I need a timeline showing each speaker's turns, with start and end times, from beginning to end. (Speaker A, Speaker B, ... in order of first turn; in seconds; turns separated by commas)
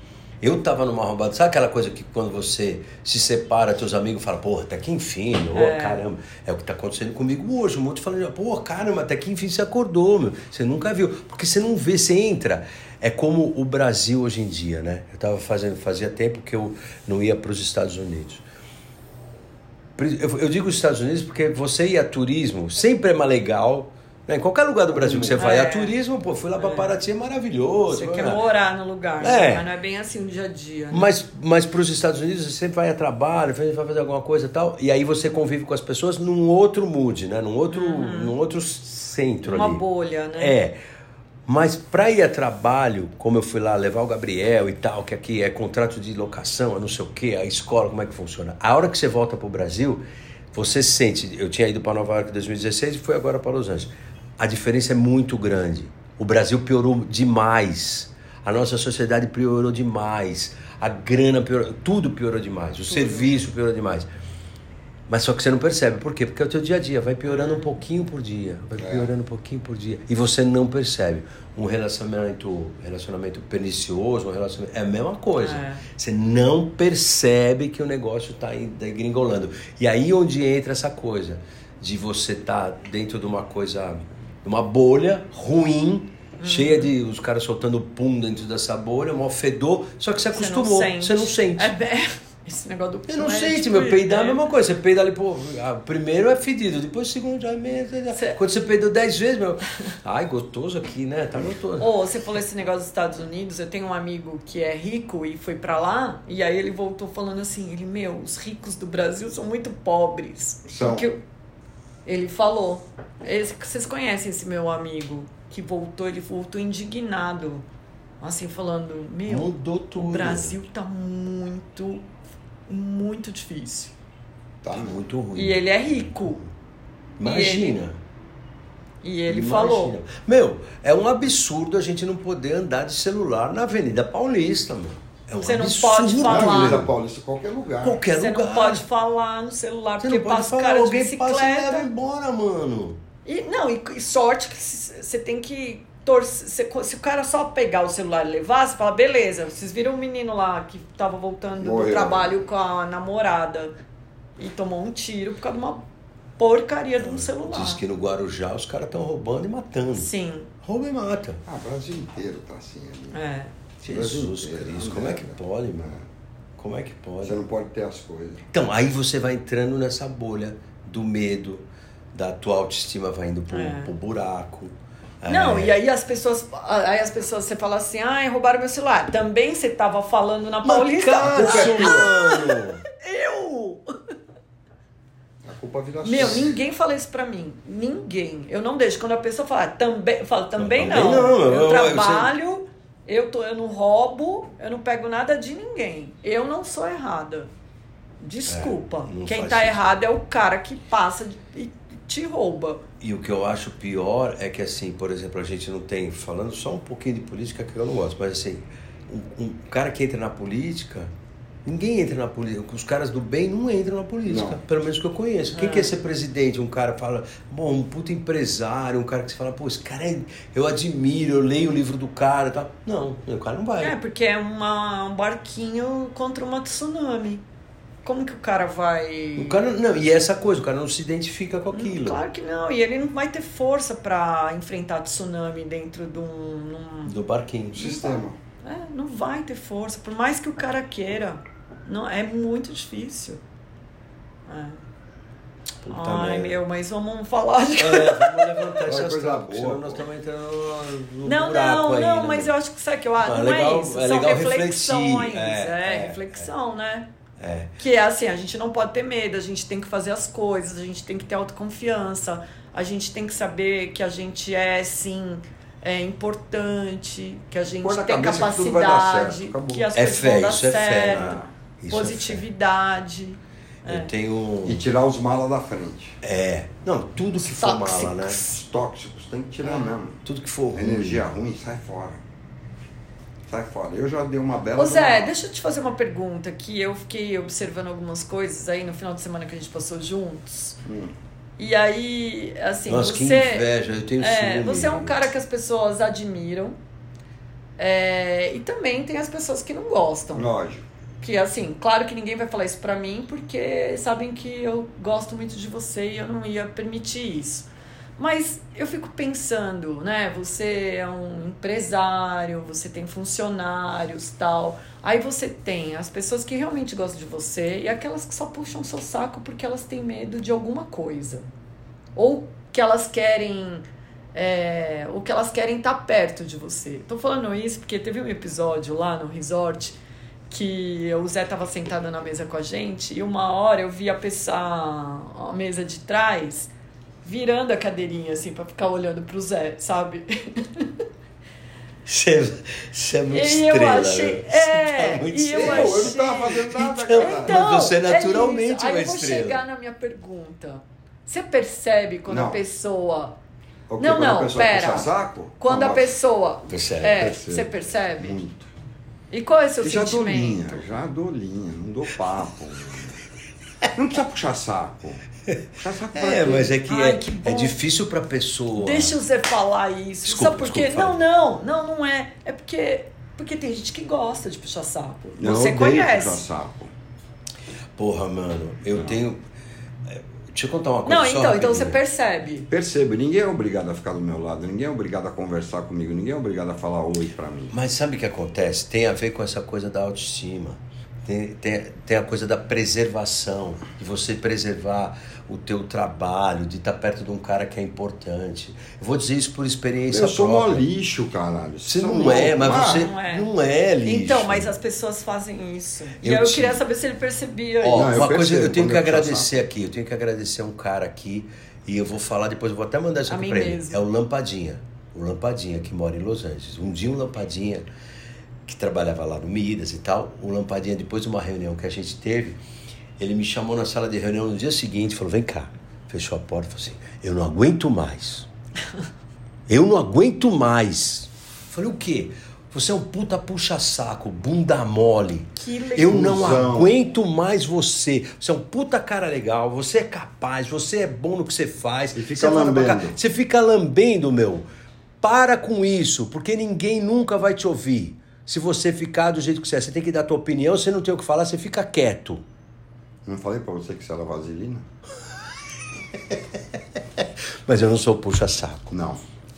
Speaker A: 0.4-18.4, Speaker B: 5.5-6.0, Speaker A: 20.0-28.4, Speaker C: 24.9-25.4, Speaker B: 25.4-25.9, Speaker B: 26.6-26.9, Speaker B: 27.9-31.1, Speaker A: 29.2-29.6, Speaker A: 30.9-39.8, Speaker B: 37.7-38.3, Speaker B: 39.4-40.5, Speaker A: 40.4-40.8, Speaker A: 41.5-50.0, Speaker A: 50.5-64.1, Speaker B: 62.9-63.3, Speaker A: 65.1-91.7, Speaker B: 67.3-67.7, Speaker C: 68.8-69.1, Speaker B: 75.4-75.8, Speaker B: 86.4-86.9, Speaker B: 90.3-94.5, Speaker A: 93.1-101.9, Speaker B: 98.1-98.4, Speaker B: 101.8-111.2, Speaker C: 110.7-111.1, Speaker B: 112.0-117.6, Speaker B: 118.2-122.1, Speaker A: 119.3-120.5, Speaker B: 122.7-123.9, Speaker C: 124.6-125.0, Speaker A: 124.7-126.3, Speaker B: 125.3-126.4, Speaker A: 127.2-128.0, Speaker B: 127.2-127.8, Speaker B: 129.0-129.9, Speaker A: 129.3-136.9, Speaker B: 135.4-136.8, Speaker C: 136.2-138.0, Speaker A: 137.8-138.8, Speaker B: 138.1-141.9, Speaker A: 140.0-143.0, Speaker B: 143.2-153.7, Speaker C: 151.6-152.3, Speaker B: 154.4-155.8, Speaker B: 156.4-157.8, Speaker A: 157.0-160.1, Speaker B: 159.9-160.5, Speaker A: 160.6-161.4, Speaker C: 161.4-163.2, Speaker B: 163.1-163.5, Speaker A: 163.8-165.9, Speaker C: 163.8-166.0, Speaker A: 166.6-167.4, Speaker C: 167.2-168.5, Speaker A: 168.5-175.8, Speaker B: 173.5-173.9, Speaker B: 175.3-183.9, Speaker A: 180.6-182.8, Speaker C: 181.2-182.1, Speaker C: 185.4-186.6, Speaker B: 186.0-197.5, Speaker A: 190.6-192.3, Speaker B: 198.2-202.8, Speaker A: 198.5-199.9, Speaker A: 203.0-211.1, Speaker A: 211.6-223.9, Speaker C: 214.2-214.6, Speaker B: 215.5-215.9, Speaker B: 223.8-227.4, Speaker B: 228.0-229.6, Speaker A: 229.4-232.2, Speaker B: 231.7-237.1, Speaker A: 237.1-238.0, Speaker C: 237.7-238.3, Speaker B: 238.6-243.4, Speaker B: 244.5-244.8, Speaker A: 245.8-246.6, Speaker B: 245.9-248.7, Speaker A: 247.8-252.5, Speaker C: 248.8-250.0, Speaker B: 251.2-257.1, Speaker A: 253.2-256.5, Speaker A: 257.4-257.7, Speaker B: 257.8-271.4, Speaker C: 267.8-269.9, Speaker A: 269.9-272.4, Speaker C: 271.1-271.5, Speaker B: 271.9-274.1, Speaker A: 273.9-274.8, Speaker C: 274.6-276.2, Speaker A: 276.2-278.4, Speaker B: 277.4-278.5, Speaker C: 278.4-280.2, Speaker A: 280.2-281.2, Speaker C: 280.7-282.2, Speaker C: 283.5-285.3, Speaker B: 284.8-290.8, Speaker C: 290.8-291.1, Speaker B: 291.6-293.7, Speaker A: 292.9-295.2, Speaker B: 294.2-296.8, Speaker B: 297.8-300.5, Speaker C: 300.3-300.8, Speaker B: 301.2-321.4, Speaker B: 322.1-330.0, Speaker B: 330.5-336.7, Speaker B: 337.2-340.9, Speaker A: 342.1-349.6, Speaker B: 343.3-353.4, Speaker C: 345.5-347.6, Speaker C: 352.3-352.6, Speaker C: 353.9-356.1, Speaker B: 354.0-358.4, Speaker A: 356.7-357.3, Speaker C: 357.1-358.7, Speaker B: 359.3-360.8, Speaker C: 359.8-363.2, Speaker C: 363.9-365.2, Speaker C: 365.8-366.7, Speaker A: 366.1-369.2, Speaker B: 366.8-367.8, Speaker B: 368.7-376.4, Speaker A: 370.2-371.2, Speaker C: 375.4-376.9, Speaker A: 378.0-379.4, Speaker A: 380.1-382.0, Speaker B: 381.0-382.7, Speaker C: 382.7-387.7, Speaker A: 387.7-400.8, Speaker C: 400.1-403.1, Speaker A: 401.9-404.7, Speaker B: 402.7-403.5, Speaker B: 404.0-408.2, Speaker A: 406.2-406.8, Speaker A: 407.8-417.8, Speaker C: 407.9-409.6, Speaker B: 413.3-414.0, Speaker A: 418.6-422.6, Speaker A: 423.2-428.5, Speaker A: 429.7-444.6, Speaker B: 435.6-436.4, Speaker C: 436.0-436.9, Speaker C: 442.1-443.2, Speaker A: 445.2-452.4, Speaker C: 453.2-454.9, Speaker A: 456.3-458.9, Speaker C: 458.9-459.2